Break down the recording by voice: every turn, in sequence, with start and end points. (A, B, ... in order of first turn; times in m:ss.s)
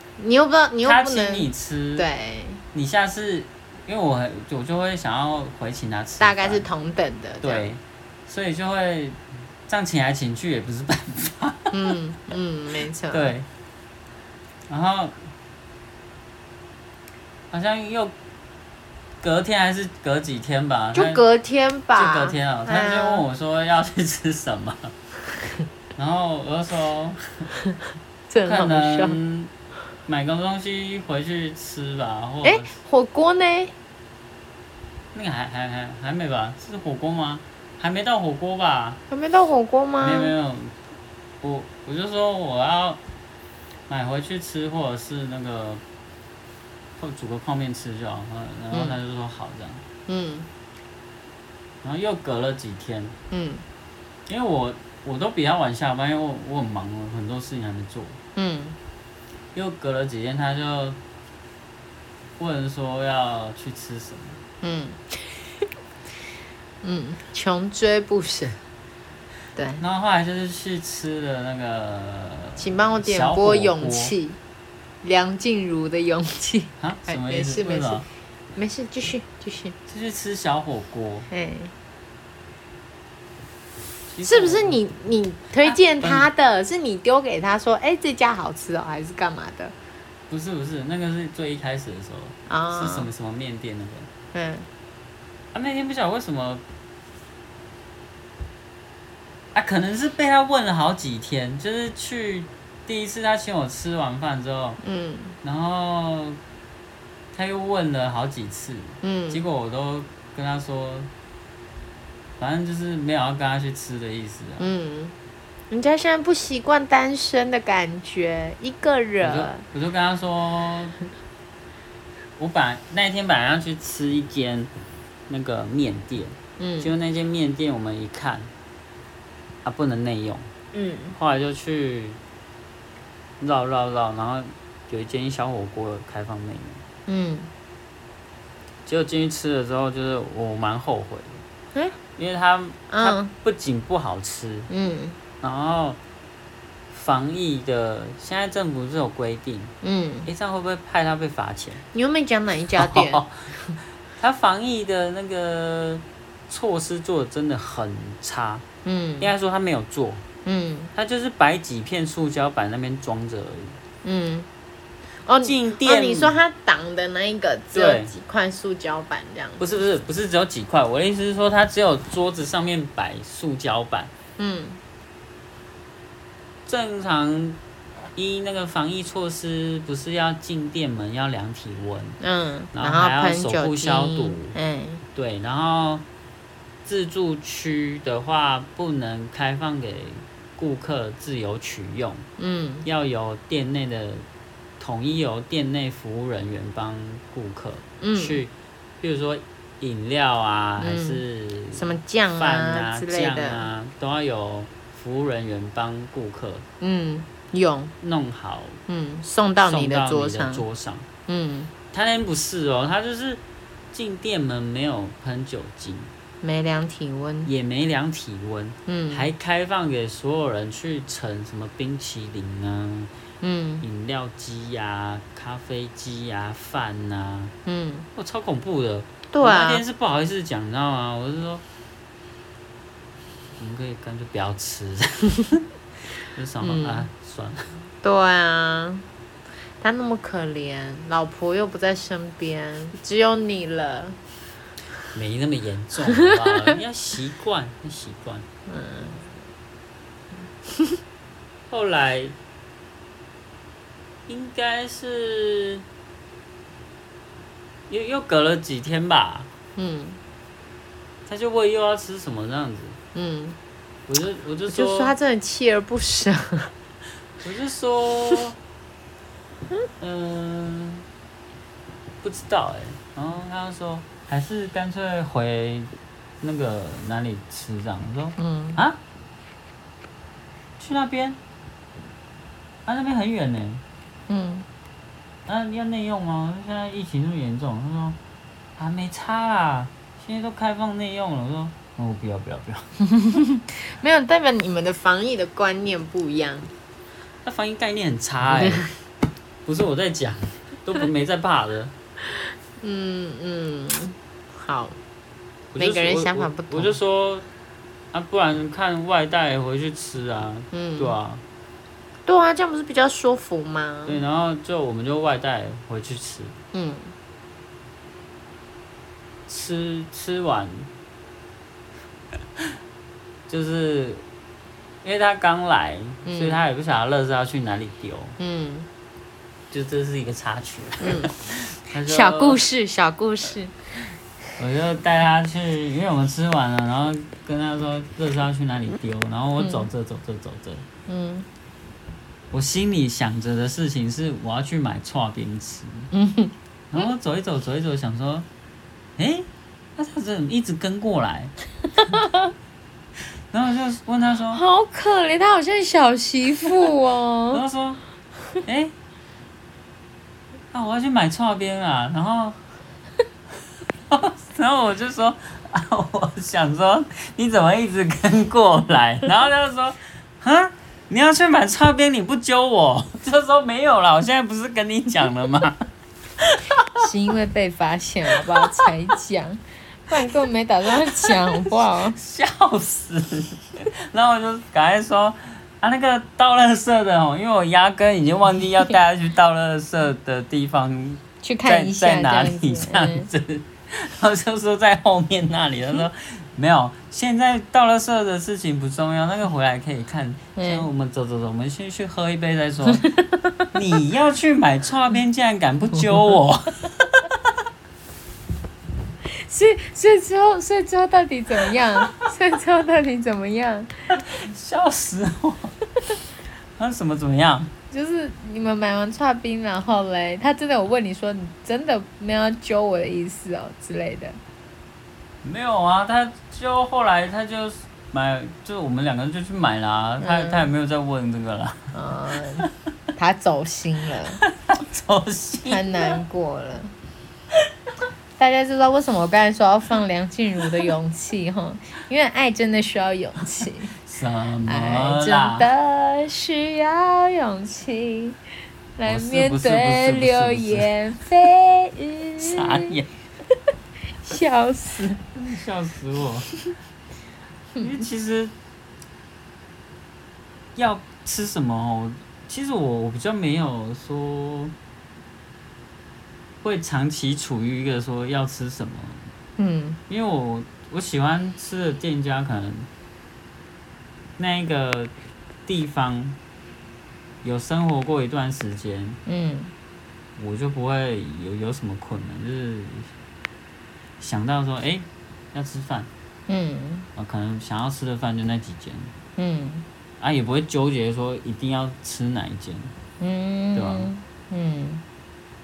0:00.2-0:02.6 A
0:00.8-0:02.1 B
0:02.7-0:06.6 B
0:06.2-0:07.7 A
0:07.4-0:11.7 B
0:11.7-0:13.3 A
0:13.1-0:13.5 B
0:14.7-0:15.2 B
0:17.5-0:18.1 B
0:19.2-0:21.2 B
0:20.9-0:23.2 A
0:21.9-0:24.9 B
0:26.0-0:27.5 B
0:28.3-0:29.2 A
0:28.4-0:29.5 B
0:30.0-0:32.8 B
0:32.4-0:33.7 A
0:35.1-0:39.0 B
0:39.1-0:40.3 A
0:40.0-0:40.7 B
0:41.4-0:43.0 B
0:43.9-0:45.8 B
0:47.0-0:49.8 B
0:48.7-0:49.0 A
0:50.1-0:50.5 A
0:51.8-0:53.1 B
0:53.3-0:53.6 A
0:54.3-0:58.2 B
0:58.4-0:58.8 A
0:59.5-1:01.0 B
1:02.4-1:04.4 B
1:04.6-1:05.4 A
1:06.8-1:08.6 A
1:09.6-1:09.8 A
1:09.8-1:14.1 B
1:12.6-1:14.4 A
1:15.0-1:18.0 A
1:16.8-1:18.0 B
1:18.6-1:19.8 A
1:19.9-1:21.3 B
1:21.3-1:21.7 A
1:24.1-1:24.8 B
1:24.2-1:29.7 A
1:25.6-1:26.3 B
1:30.3-1:34.1 B
1:32.5-1:33.1 A
1:34.3-1:34.7 A
1:35.5-1:36.6 B
1:39.5-1:44.8 B
1:44.8-1:45.4 A
1:45.4-1:46.4 B
1:47.3-1:51.1 B
1:49.0-1:49.4 A
1:52.4-1:54.7 B
1:54.6-1:55.1 A
1:55.7-1:59.6 A
1:59.2-2:01.0 B
2:02.4-2:04.7 B
2:05.3-2:08.5 B
2:06.6-2:06.9 A
2:09.6-2:10.5 B
2:10.7-2:11.2 A
2:11.1-2:12.2 B
2:13.4-2:16.8 B
2:17.1-2:17.5 A
2:18.8-2:21.4 B
2:22.2-2:24.7 B
2:22.9-2:23.3 A
2:24.7-2:25.2 A
2:25.4-2:26.0 B
2:26.9-2:29.7 B
2:29.8-2:30.3 A
2:30.2-2:31.8 B
2:31.9-2:33.7 A
2:32.8-2:33.5 B
2:34.2-2:38.6 B
2:38.8-2:39.3 A
2:39.2-2:40.2 B
2:40.4-2:40.9 A
2:40.9-2:43.8 B
2:44.0-2:44.5 A
2:45.2-2:49.8 A
2:45.4-2:46.4 B
2:47.7-2:48.1 B
2:49.6-2:54.1 B
2:54.4-2:54.8 A
2:56.6-2:57.6 B
2:58.2-3:02.2 B
3:02.2-3:05.0 A
3:02.7-3:04.6 B
3:05.1-3:06.0 B
3:06.8-3:12.2 B
3:12.4-3:12.8 A
3:12.8-3:14.2 B
3:14.8-3:26.6 B
3:18.0-3:18.4 A
3:20.8-3:21.2 A
3:21.7-3:23.7 A
3:26.8-3:27.9 A
3:28.0-3:28.8 B
3:28.9-3:30.6 A
3:29.6-3:31.1 B
3:31.3-3:31.7 A
3:31.9-3:36.1 B
3:36.4-3:37.5 A
3:37.4-3:43.1 B
3:38.9-3:39.3 A
3:43.4-3:43.8 A
3:43.8-3:47.5 B
3:47.6-3:48.1 A
3:48.2-3:51.6 B
3:49.3-3:49.8 A
3:53.6-3:55.6 B
3:56.3-3:57.6 B
3:56.6-3:57.1 A
3:58.0-3:59.0 A
3:59.8-4:04.2 A
4:05.1-4:08.4 B
4:08.7-4:09.3 A
4:11.7-4:12.4 B
4:14.3-4:15.8 B
4:17.9-4:19.5 B
4:19.8-4:20.2 A
4:21.2-4:23.0 B
4:23.1-4:23.6 A
4:24.1-4:25.1 B
4:24.7-4:26.7 A
4:27.4-4:28.6 B
4:30.0-4:31.0 B
4:32.2-4:39.0 B
4:38.4-4:38.8 A
4:40.8-4:41.4 B
4:42.8-4:43.8 B
4:44.3-4:44.6 A
4:45.5-4:48.2 B
4:48.8-4:52.9 B
4:53.1-4:56.7 A
4:57.4-4:58.9 B
4:58.5-4:58.9 A
4:59.6-5:01.9 B
5:02.8-5:05.0 A
5:05.7-5:07.4 B
5:05.8-5:06.9 A
5:08.1-5:11.4 B
5:10.7-5:11.2 A
5:12.2-5:14.2 A
5:14.1-5:16.5 B
5:16.7-5:17.1 A
5:19.5-5:20.9 B
5:23.5-5:24.2 B
5:25.0-5:28.4 B
5:26.2-5:26.6 A
5:28.4-5:28.9 A
5:29.7-5:32.6 B
5:31.0-5:31.3 A
5:32.0-5:33.8 A
5:34.6-5:40.8 B
5:39.6-5:39.9 A
5:41.1-5:41.4 A
5:42.5-5:46.1 B
5:46.1-5:46.5 A
5:46.9-5:48.5 B
5:49.2-5:51.5 B
5:52.0-5:52.5 A
5:53.5-5:54.6 B
5:54.5-5:57.6 A
5:57.5-5:58.0 B
5:58.6-5:58.9 B
6:00.7-6:02.6 B
6:04.1-6:15.8 B
6:16.4-6:16.9 B
6:17.0-6:22.2 A
6:18.3-6:18.9 B
6:21.2-6:43.0 B
6:31.4-6:33.3 A
6:40.6-6:40.9 A
6:42.9-6:43.6 A
6:43.7-6:47.4 B
6:49.4-6:53.9 A
6:54.1-6:55.7 B
6:56.8-6:57.7 B
6:57.9-7:04.4 A
7:05.4-7:11.9 B
7:10.2-7:10.7 A
7:11.9-7:14.4 A
7:14.4-7:16.2 B
7:15.7-7:16.9 A
7:18.4-7:23.9 A
7:24.0-7:25.7 B
7:24.6-7:28.4 A
7:29.0-7:33.0 A
7:29.0-7:30.9 B
7:32.4-7:33.1 B
7:34.2-7:35.2 A
7:35.3-7:36.5 B
7:37.8-7:38.5 B
7:40.8-7:44.7 B
7:46.6-7:49.3 B
7:49.6-7:50.0 A
7:50.1-7:52.9 B
7:54.4-7:55.1 B
7:55.6-7:56.4 B
7:57.4-7:59.2 B
7:59.3-7:59.7 A
8:00.4-8:03.1 B
8:04.2-8:06.1 B
8:06.5-8:07.1 A
8:07.2-8:09.1 B
8:09.4-8:09.8 A
8:10.2-8:12.9 B
8:13.2-8:15.0 A
8:13.7-8:14.1 B